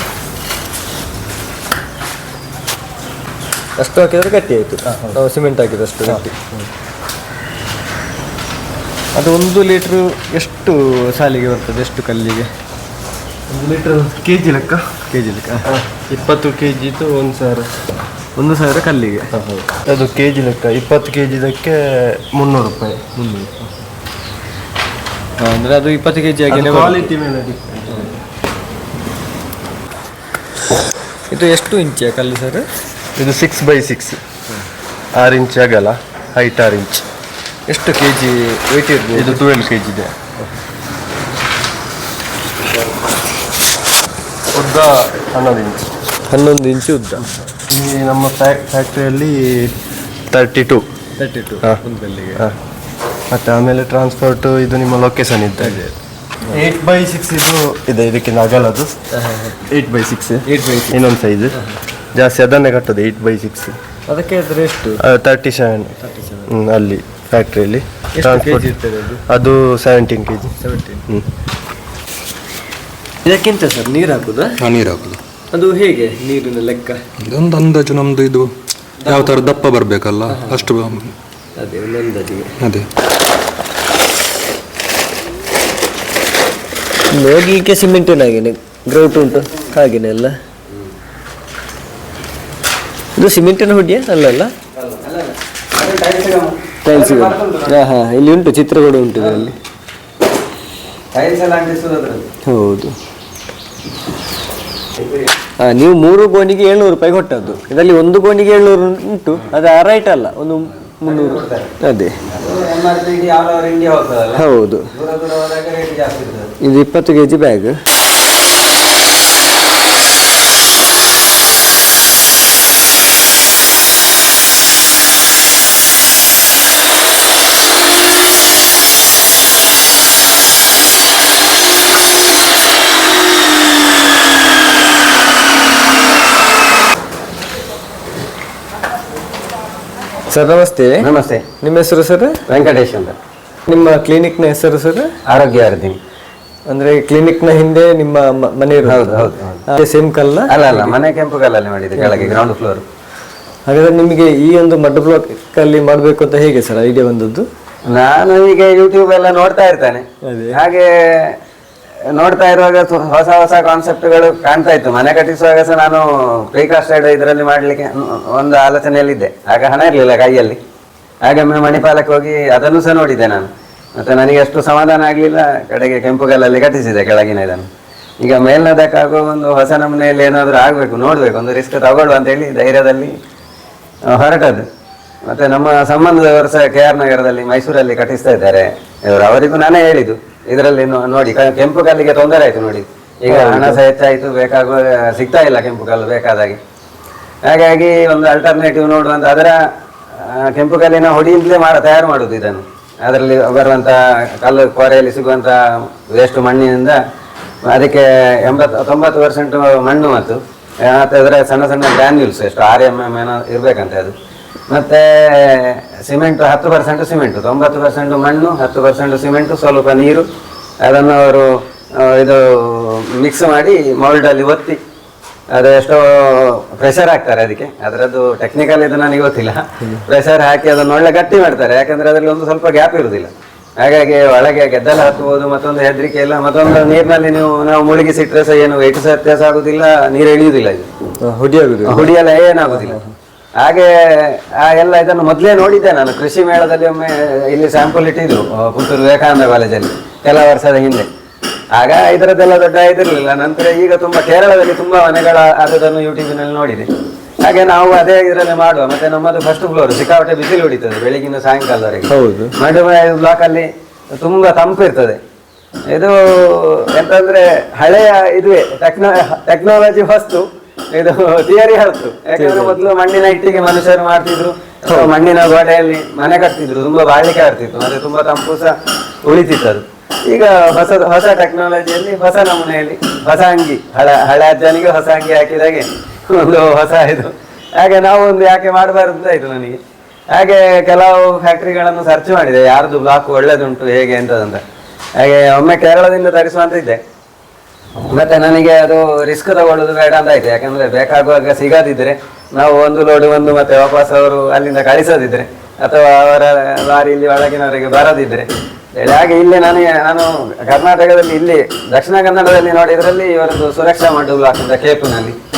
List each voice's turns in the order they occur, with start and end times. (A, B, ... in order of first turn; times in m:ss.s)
0:03.8-0:06.7 A
0:04.9-0:05.2 B
0:09.1-0:12.5 A
0:13.5-0:15.0 B
0:15.1-0:15.7 A
0:15.6-0:17.7 B
0:18.4-0:19.7 A
0:19.8-0:23.1 B
0:23.2-0:23.7 A
0:25.4-0:27.1 A
0:26.5-0:28.2 B
0:31.3-0:32.7 A
0:33.2-0:34.2 B
0:35.2-0:37.0 B
0:37.7-0:39.4 A
0:39.1-0:40.3 B
0:44.5-0:45.9 B
0:46.3-0:47.3 A
0:47.2-0:49.7 B
0:50.3-0:50.8 B
0:51.2-0:52.5 A
0:53.3-0:55.9 B
0:55.6-0:55.8 A
0:56.5-0:59.0 B
0:59.1-0:59.6 A
0:59.6-1:01.6 B
1:00.5-1:01.0 A
1:01.5-1:01.8 A
1:02.2-1:03.8 B
1:04.1-1:05.0 A
1:05.0-1:08.7 B
1:06.0-1:06.5 A
1:08.2-1:09.2 A
1:09.3-1:11.3 B
1:10.6-1:11.1 A
1:13.2-1:14.6 A
1:14.6-1:15.2 C
1:15.5-1:17.0 A
1:17.2-1:21.1 C
1:19.1-1:19.3 A
1:20.3-1:20.7 A
1:21.6-1:22.6 A
1:22.6-1:22.9 C
1:27.1-1:30.4 A
1:33.2-1:34.5 A
1:34.8-1:37.8 D
1:36.8-1:39.6 A
1:39.2-1:39.5 D
1:41.1-1:42.3 D
1:42.4-1:43.0 A
1:45.6-1:52.2 A
1:50.9-1:51.7 D
1:52.2-1:56.5 D
1:54.4-1:54.9 A
1:56.6-1:57.8 A
2:20.3-2:21.1 A
2:21.0-2:21.4 D
2:21.6-2:22.4 A
2:22.5-2:23.2 D
2:23.7-2:25.1 A
2:25.3-2:26.0 D
2:26.7-2:30.9 A
2:28.8-2:29.6 D
2:30.5-2:32.8 D
2:32.0-2:32.4 A
2:33.7-2:37.5 A
2:37.9-2:41.4 D
2:40.2-2:40.6 A
2:42.1-2:50.6 D
2:51.2-2:57.7 D
2:58.2-3:03.2 D
3:04.1-3:04.7 D
3:05.3-3:16.6 D
3:13.3-3:13.8 A
3:17.4-3:19.6 D
3:20.2-3:27.0 D
3:27.6-3:34.1 D
3:34.7-3:40.3 D
3:40.8-3:44.8 D
3:45.5-4:00.9 D
4:01.2-4:02.1 A
4:01.9-4:03.0 D
4:02.7-4:03.1 A
4:03.6-4:11.1 D
4:11.7-4:16.9 D
4:17.4-4:25.2 D
4:22.1-4:22.5 A
4:25.9-4:49.8 D
4:32.4-4:32.8 A
4:50.3-4:54.6 D
4:55.2-4:57.0 D
4:58.1-5:15.4 D